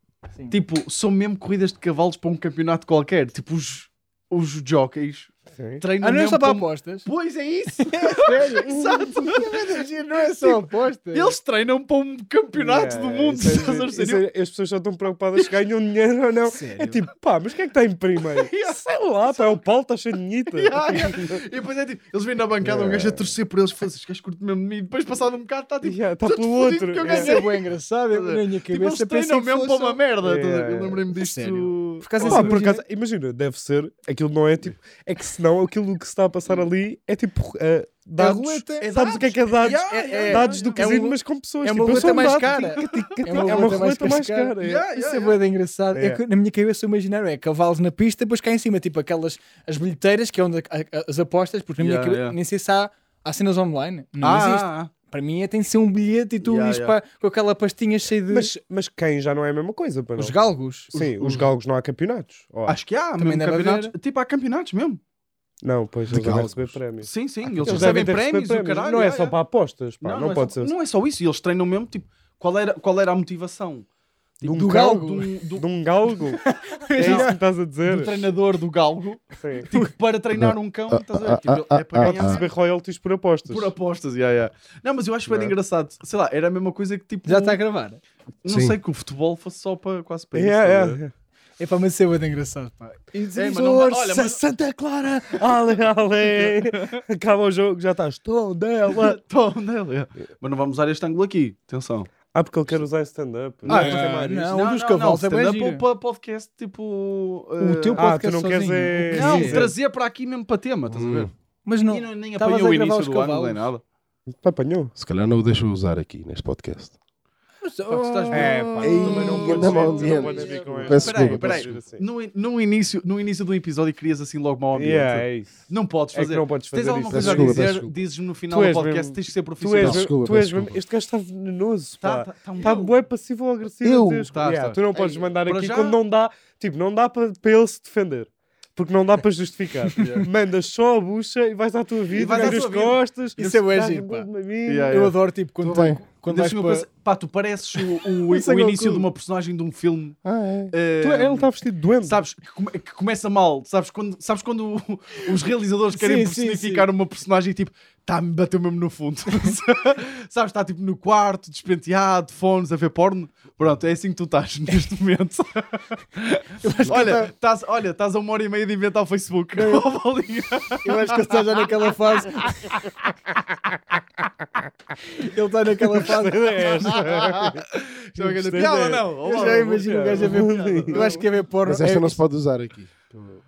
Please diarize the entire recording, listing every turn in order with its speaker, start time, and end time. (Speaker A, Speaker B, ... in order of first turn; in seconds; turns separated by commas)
Speaker A: 0.5-9.8, Speaker B: 5.5-5.8, Speaker C: 6.0-7.1, Speaker C: 7.8-11.4, Speaker A: 10.4-14.3, Speaker B: 12.6-21.4, Speaker C: 16.5-17.0, Speaker A: 18.2-19.6, Speaker A: 20.5-32.8, Speaker B: 22.6-23.3, Speaker B: 25.8-27.3, Speaker C: 27.0-30.0, Speaker B: 30.2-31.0, Speaker C: 31.1-32.8, Speaker B: 32.2-44.8, Speaker C: 38.2-38.9, Speaker A: 38.8-41.0, Speaker C: 39.6-58.6, Speaker A: 41.8-43.8, Speaker A: 44.6-45.4, Speaker B: 45.9-46.2, Speaker A: 51.8-52.4, Speaker A: 54.2-54.9, Speaker A: 56.4-57.0, Speaker B: 58.3-60.4, Speaker C: 60.2-60.9, Speaker B: 60.9-62.8, Speaker A: 60.9-61.4, Speaker A: 62.7-65.0, Speaker C: 63.2-63.9, Speaker B: 65.6-70.7, Speaker D: 66.1-66.8, Speaker A: 67.0-69.3, Speaker D: 67.5-68.0, Speaker A: 70.0-73.9, Speaker B: 74.4-75.0, Speaker A: 74.4-75.7, Speaker C: 74.5-75.3, Speaker B: 75.5-76.4, Speaker C: 76.2-77.4, Speaker A: 77.0-77.3, Speaker B: 77.0-78.1, Speaker A: 77.8-82.5, Speaker B: 79.4-79.7, Speaker C: 79.6-79.9, Speaker D: 80.3-82.4, Speaker B: 82.0-83.7, Speaker A: 83.5-87.6, Speaker B: 85.3-85.5, Speaker C: 87.3-88.0, Speaker A: 88.4-91.0, Speaker D: 88.5-88.8, Speaker B: 90.3-91.1, Speaker C: 91.6-93.8, Speaker A: 93.3-94.4, Speaker B: 93.5-99.2, Speaker A: 96.3-97.0, Speaker A: 98.9-102.1, Speaker B: 102.3-104.5, Speaker C: 103.7-105.8, Speaker A: 103.7-108.0, Speaker C: 107.6-109.7, Speaker B: 108.0-109.7, Speaker A: 109.1-111.3, Speaker D: 110.9-111.3, Speaker C: 111.7-113.7, Speaker A: 111.8-113.8, Speaker B: 114.3-114.9, Speaker D: 115.0-116.9, Speaker C: 117.6-121.1, Speaker A: 117.9-130.1, Speaker B: 118.3-122.0, Speaker D: 118.8-121.8, Speaker B: 124.8-127.7, Speaker D: 127.1-127.9, Speaker B: 128.5-145.1, Speaker D: 129.8-130.8, Speaker A: 132.0-133.0, Speaker D: 133.8-134.3, Speaker A: 134.3-136.0, Speaker A: 140.0-140.3, Speaker A: 142.1-143.0, Speaker C: 142.2-142.7, Speaker C: 143.4-144.3, Speaker A: 144.7-145.2, Speaker C: 144.9-146.9, Speaker D: 145.6-146.0, Speaker A: 146.3-150.2, Speaker C: 147.8-149.1, Speaker D: 150.2-150.7, Speaker A: 150.7-151.5, Speaker B: 151.0-152.2, Speaker A: 152.0-171.6, Speaker C: 155.9-156.9, Speaker C: 166.6-167.3, Speaker C: 169.6-169.8, Speaker C: 170.8-172.8, Speaker C: 175.2-177.1, Speaker B: 175.9-181.2, Speaker A: 176.9-181.2, Speaker C: 178.7-182.2, Speaker D: 181.7-183.2